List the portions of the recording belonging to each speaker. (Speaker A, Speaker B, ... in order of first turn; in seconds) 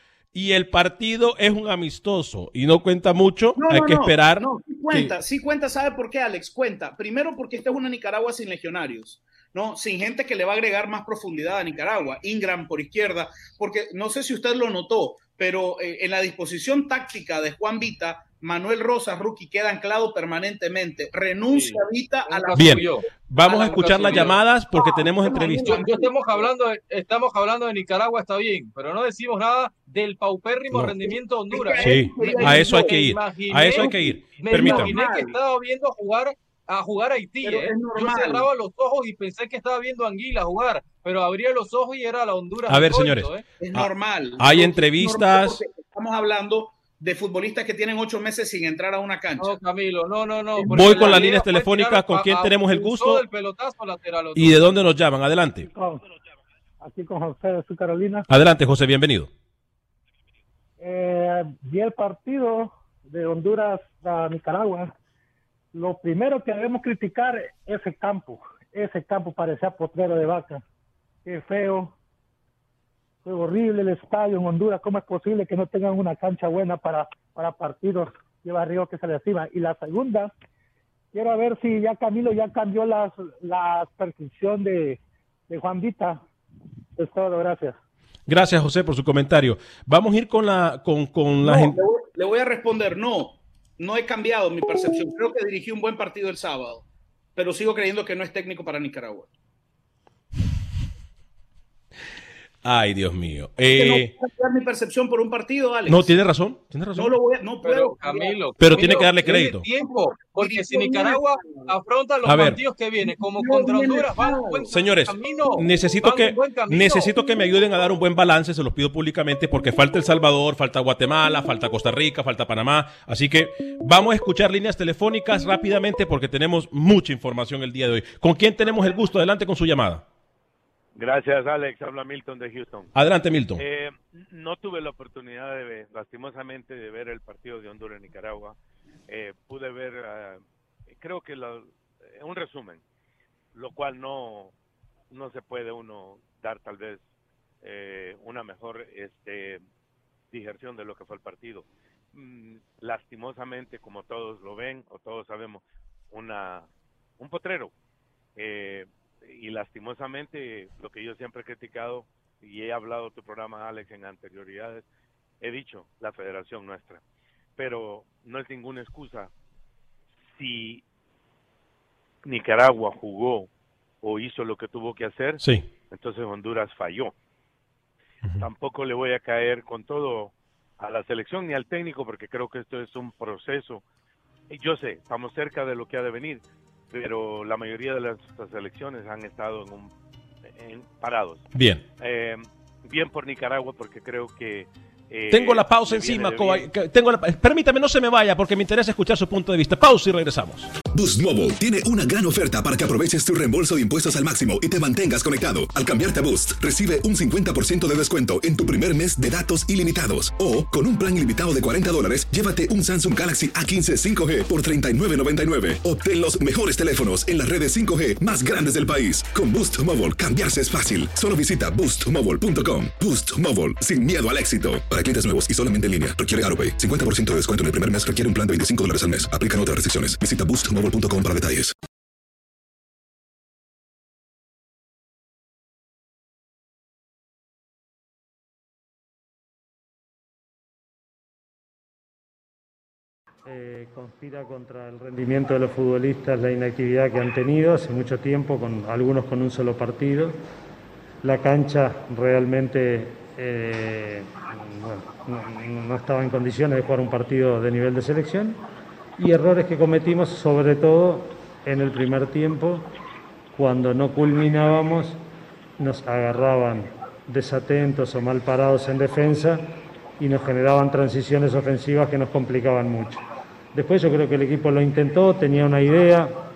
Speaker A: 0.3-5.1, 22.6-25.8, 31.8-34.9, 42.7-45.6, 50.7-53.2, 54.4-55.7, 58.3-59.3, 88.3-91.8, 102.6-104.1, 105.9-107.2, 108.6-109.7, 112.2-112.6, 114.7-130.0, 132.9-133.6, 175.4-175.7, 191.5-191.8, 195.3-200.7
Speaker B: 3.6-22.8, 23.9-26.5, 31.5-33.0, 33.6-35.4, 37.4-38.5, 43.6-49.5, 50.6-51.2, 91.4-99.3, 103.7-106.1, 107.0-111.7, 113.0-114.7
Speaker C: 21.5-24.4, 25.6-43.4, 49.4-54.6, 107.6-117.2
Speaker D: 55.7-56.0, 56.8-58.2, 60.8-64.9, 65.7-70.6, 71.2-71.9, 73.2-80.3, 81.1-86.2, 87.0-87.8
Speaker E: 131.0-132.9, 133.6-138.6, 139.1-140.4, 140.9-142.8, 143.5-144.5, 145.1-147.0, 147.6-149.6, 150.3-156.7, 157.2-157.7, 158.4-164.9, 165.4-167.0, 167.6-169.3, 170.3-170.8, 172.2-173.5, 174.0-177.1, 178.4-183.8, 184.5-189.9, 190.5-191.5, 192.0-196.7
Speaker F: 200.9-231.7
Speaker G: 243.5-250.3, 251.2-258.6, 259.2-262.9, 263.6-265.2, 265.8-269.6, 270.2-273.2, 273.7-276.3